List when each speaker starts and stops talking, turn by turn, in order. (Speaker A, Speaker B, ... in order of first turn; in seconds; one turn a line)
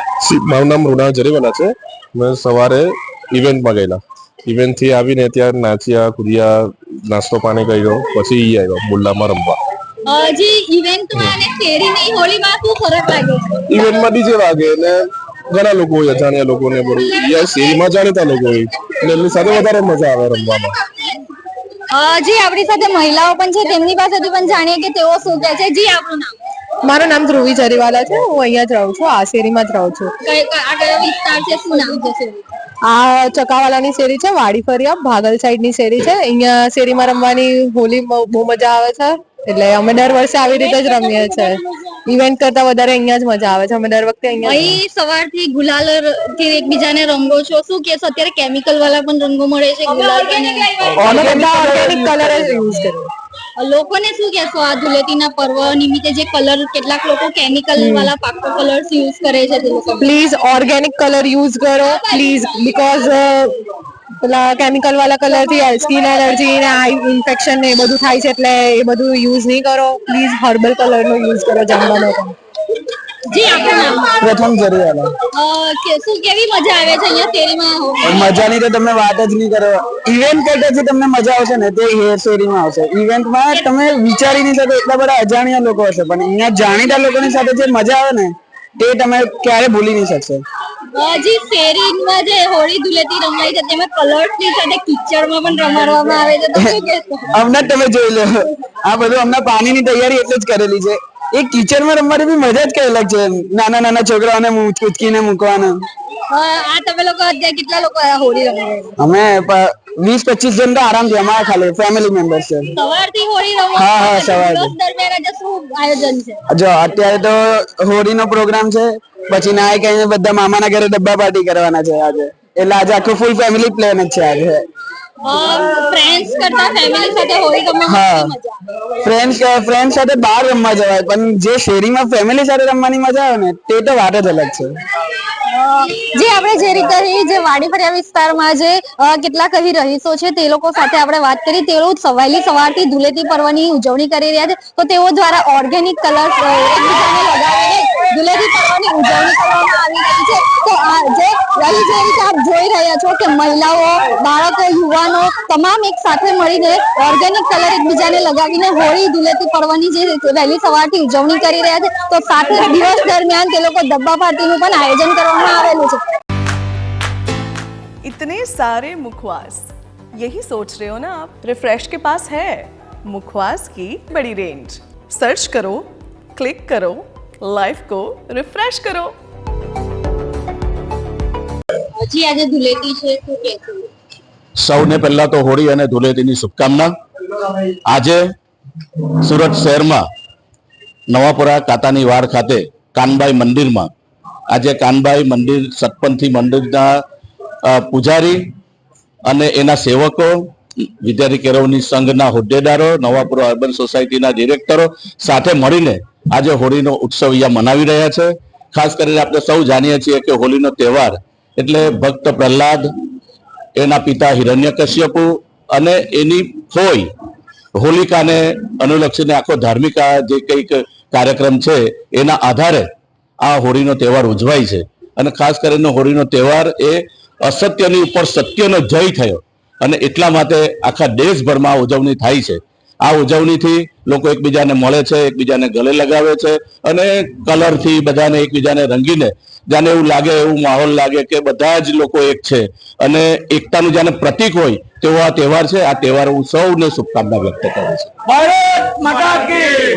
Speaker A: 0.2-9.6
Speaker B: 10.0-13.8
Speaker A: 13.7-20.7
Speaker B: 21.9-26.3
Speaker C: 26.9-30.1
Speaker B: 30.2-32.5
Speaker C: 32.9-41.4
Speaker B: 40.4-42.0
Speaker C: 42.1-44.6
Speaker B: 44.4-51.2
Speaker D: 51.0-52.3
Speaker C: 51.1-53.1
Speaker B: 53.6-60.1
Speaker C: 57.8-58.1
Speaker C: 60.0-63.5
Speaker B: 61.8-62.4
Speaker C: 64.2-72.3
Speaker B: 73.3-74.2
Speaker D: 74.2-75.1
Speaker B: 75.3-78.4
Speaker D: 78.0-90.4
Speaker B: 90.9-97.3
Speaker D: 97.3-105.8
Speaker B: 106.3-109.0
Speaker D: 109.0-112.7
Speaker B: 112.7-116.4
Speaker D: 113.7-114.7
Speaker D: 116.5-124.6
Speaker B: 125.2-128.6
Speaker D: 127.8-128.3
Speaker D: 129.0-134.7
Speaker B: 135.5-166.0
Speaker E: 168.0-179.1
Speaker B: 181.9-183.8
Speaker F: 184.6-186.9
Speaker F: 187.8-188.2
Speaker F: 189.2-190.0
Speaker F: 191.1-193.9
Speaker F: 194.5-197.0
Speaker F: 197.6-198.5
Speaker F: 199.3-200.4
Speaker F: 201.0-212.9
Speaker F: 213.8-217.1
Speaker F: 217.7-222.9
Speaker F: 223.4-248.1
Speaker D: 248.4-249.7